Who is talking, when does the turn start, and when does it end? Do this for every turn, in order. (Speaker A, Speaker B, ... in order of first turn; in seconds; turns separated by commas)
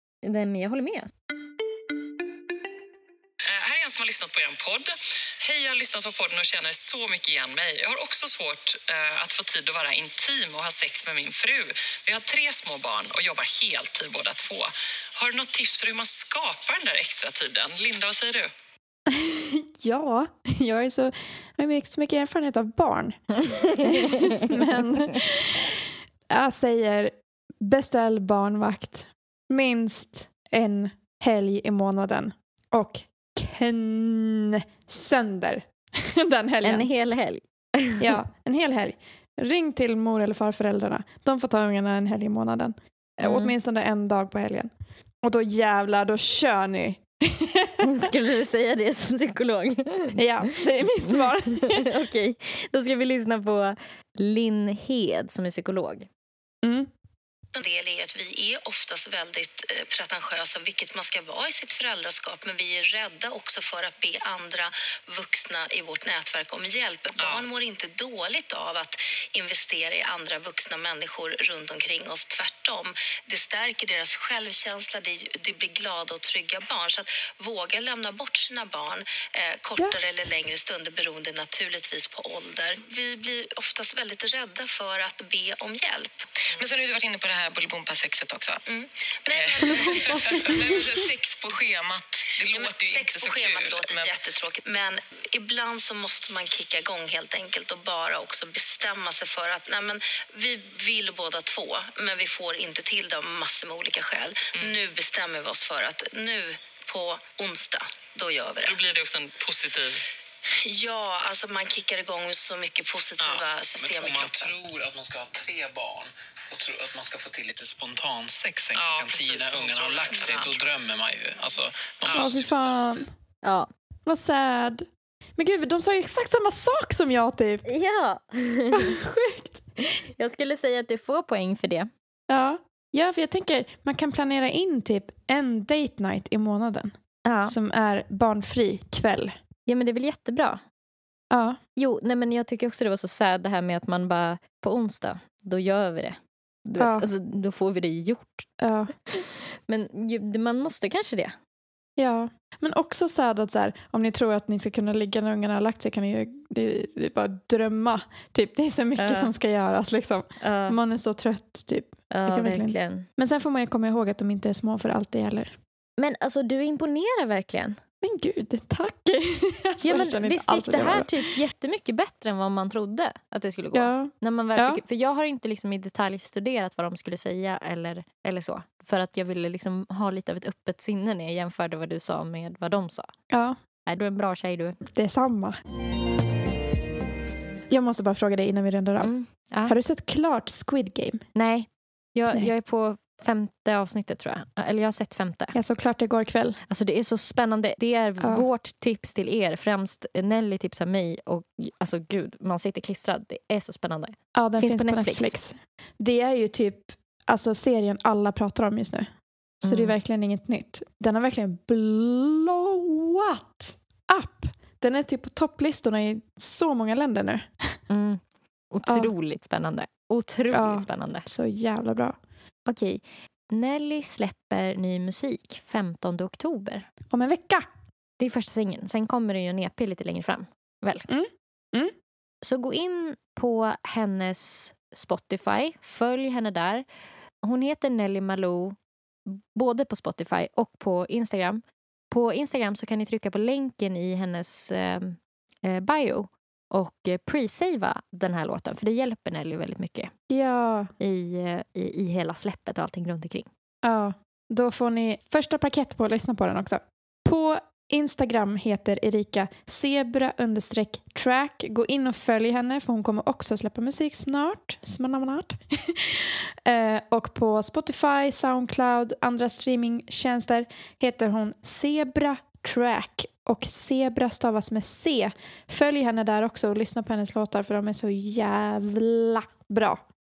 Speaker A: 0.2-1.1, Speaker B: 3.5-18.5, Speaker C: 19.1-36.9, Speaker A: 23.5-24.4, Speaker A: 36.6-38.2, Speaker C: 38.0-44.7, Speaker A: 43.2-43.5, Speaker C: 45.2-47.9, Speaker A: 47.8-50.2, Speaker C: 50.1-51.9, Speaker A: 51.1-56.1, Speaker C: 56.6-56.9, Speaker D: 57.5-86.6, Speaker B: 67.2-67.5, Speaker B: 86.5-88.6, Speaker D: 88.7-90.9, Speaker B: 89.3-94.3, Speaker C: 89.7-90.4, Speaker D: 92.4-108.8, Speaker B: 104.5-104.8, Speaker B: 108.6-110.0, Speaker D: 110.6-114.7, Speaker B: 113.2-113.5, Speaker E: 113.7-123.0, Speaker B: 118.7-120.7, Speaker B: 122.0-122.3, Speaker C: 122.1-123.1, Speaker A: 123.4-123.7, Speaker C: 124.0-127.6, Speaker A: 127.7-129.0, Speaker C: 128.7-129.7, Speaker A: 130.2-131.9, Speaker C: 132.3-139.3, Speaker A: 137.2-137.6, Speaker A: 139.7-140.6, Speaker C: 141.3-141.6, Speaker A: 141.8-148.5, Speaker C: 146.8-147.1, Speaker C: 148.6-148.9, Speaker A: 149.7-151.3, Speaker C: 152.0-165.5, Speaker A: 159.0-159.3, Speaker A: 160.4-160.8, Speaker A: 162.1-163.1, Speaker A: 166.0-167.8, Speaker C: 168.0-171.4, Speaker A: 169.8-183.1, Speaker C: 173.7-174.8, Speaker C: 183.3-183.6, Speaker A: 183.8-184.8, Speaker C: 184.8-185.6, Speaker C: 187.7-189.1, Speaker A: 189.0-189.7, Speaker C: 189.6-191.2, Speaker A: 191.3-195.5, Speaker C: 195.5-196.6, Speaker A: 196.7-205.3, Speaker C: 198.2-198.4, Speaker C: 204.3-209.1, Speaker A: 209.6-209.9, Speaker C: 209.6-217.5, Speaker A: 217.9-221.2, Speaker C: 218.8-219.1, Speaker C: 220.5-222.2, Speaker A: 222.7-226.9, Speaker C: 227.1-227.7, Speaker A: 228.2-231.1, Speaker C: 231.1-231.9, Speaker A: 232.4-236.8, Speaker A: 237.4-250.1, Speaker C: 250.3-250.9, Speaker A: 251.0-253.5, Speaker C: 253.8-280.0